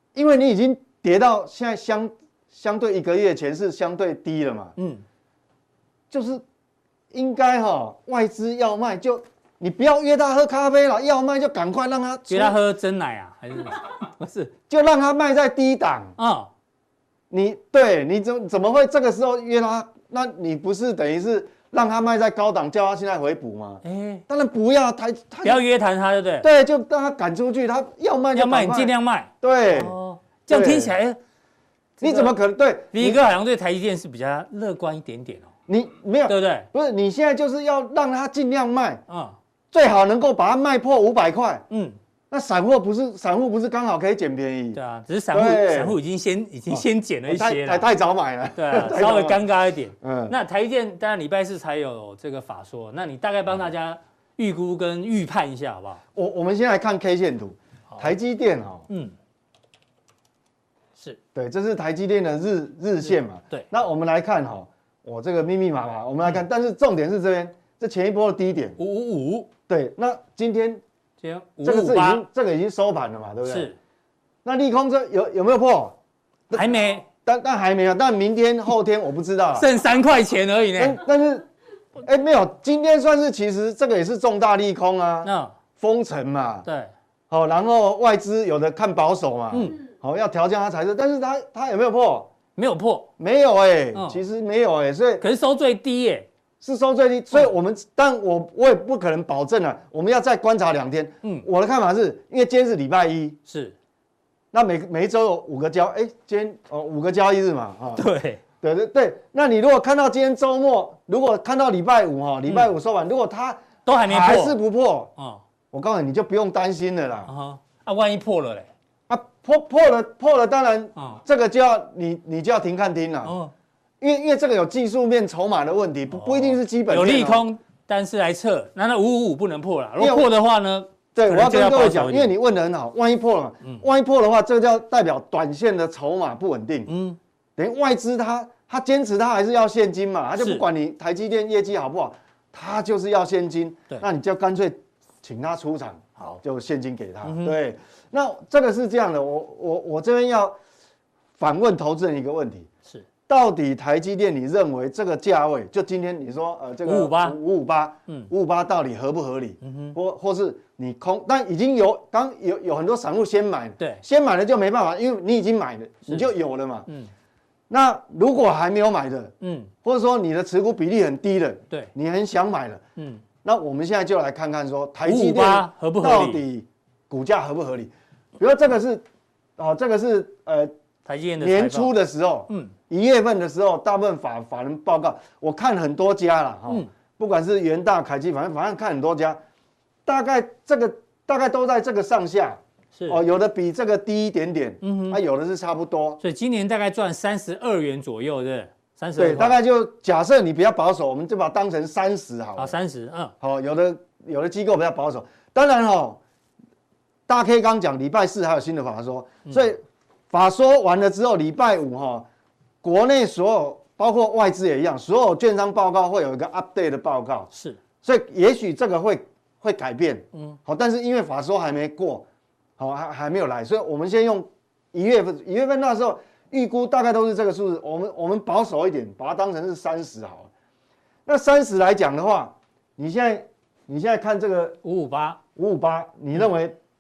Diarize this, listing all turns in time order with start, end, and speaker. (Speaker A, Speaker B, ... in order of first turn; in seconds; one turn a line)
Speaker A: 0.1-4.8
Speaker B: 4.8-5.0
Speaker A: 6.1-6.4
Speaker A: 7.1-12.6
Speaker B: 12.3-14.5
Speaker A: 14.7-16.2
Speaker B: 16.2-16.5
Speaker A: 17.3-25.6
Speaker B: 23.8-24.2
Speaker B: 25.4-26.5
Speaker A: 26.4-29.9
Speaker B: 28.3-31.2
Speaker A: 30.5-31.0
Speaker B: 32.0-32.4
Speaker A: 32.0-33.2
Speaker B: 32.9-35.5
Speaker A: 35.7-39.0
Speaker B: 36.3-36.7
Speaker B: 39.1-39.4
Speaker A: 39.7-41.6
Speaker B: 41.7-42.0
Speaker A: 42.3-44.8
Speaker B: 44.7-47.9
Speaker A: 45.3-46.0
Speaker A: 46.7-49.4
Speaker B: 48.5-56.0
Speaker A: 50.0-50.4
Speaker A: 56.1-58.9
Speaker B: 58.9-59.1
Speaker A: 61.4-68.8
Speaker B: 63.0-63.7
Speaker B: 68.8-69.5
Speaker A: 69.7-70.8
Speaker B: 71.2-72.3
Speaker A: 71.6-73.7
Speaker B: 73.4-73.8
Speaker A: 74.5-76.0
Speaker A: 76.5-79.7
Speaker B: 76.5-77.1
Speaker B: 79.5-81.0
Speaker A: 80.8-81.5
Speaker A: 82.0-86.7
Speaker B: 85.2-85.6
Speaker B: 86.7-86.9
Speaker A: 87.3-92.3
Speaker B: 89.5-89.8
Speaker B: 92.6-93.1
Speaker A: 93.2-95.2
Speaker B: 94.0-94.2
Speaker B: 95.2-96.3
Speaker A: 96.6-103.4
Speaker B: 103.5-103.8
Speaker A: 104.5-108.0
Speaker B: 108.0-108.4
Speaker A: 108.6-115.1
Speaker B: 112.5-112.7
Speaker B: 113.8-114.6
Speaker B: 115.2-115.4
Speaker A: 115.7-117.3
Speaker B: 117.3-118.7
Speaker A: 119.1-123.3
Speaker B: 121.0-121.2
Speaker B: 123.2-123.5
Speaker A: 124.0-127.5
Speaker B: 126.1-132.3
Speaker A: 130.0-130.3
Speaker A: 131.2-136.9
Speaker B: 136.9-137.2
Speaker A: 137.6-150.6
Speaker B: 140.4-140.7
Speaker B: 147.2-147.6
Speaker A: 151.4-152.7
Speaker A: 153.3-166.9
Speaker B: 156.8-157.4
Speaker B: 159.6-160.0
Speaker B: 163.8-164.0
Speaker A: 167.7-169.3
Speaker B: 169.4-169.7
Speaker A: 169.8-172.8
Speaker B: 173.0-173.2
Speaker A: 173.4-179.0
Speaker B: 175.1-176.4
Speaker A: 179.6-180.7
Speaker B: 181.1-181.9
Speaker A: 181.4-189.4
Speaker A: 190.1-196.2
Speaker B: 192.9-193.2
Speaker B: 194.8-195.2
Speaker B: 196.2-199.6
Speaker A: 199.2-202.8
Speaker B: 202.6-203.3
Speaker A: 203.4-206.2
Speaker A: 207.3-212.3
Speaker A: 212.8-217.5
Speaker B: 217.5-217.8
Speaker A: 218.0-222.3
Speaker A: 222.8-230.5
Speaker A: 231.3-234.8
Speaker B: 234.8-235.4
Speaker A: 235.6-236.8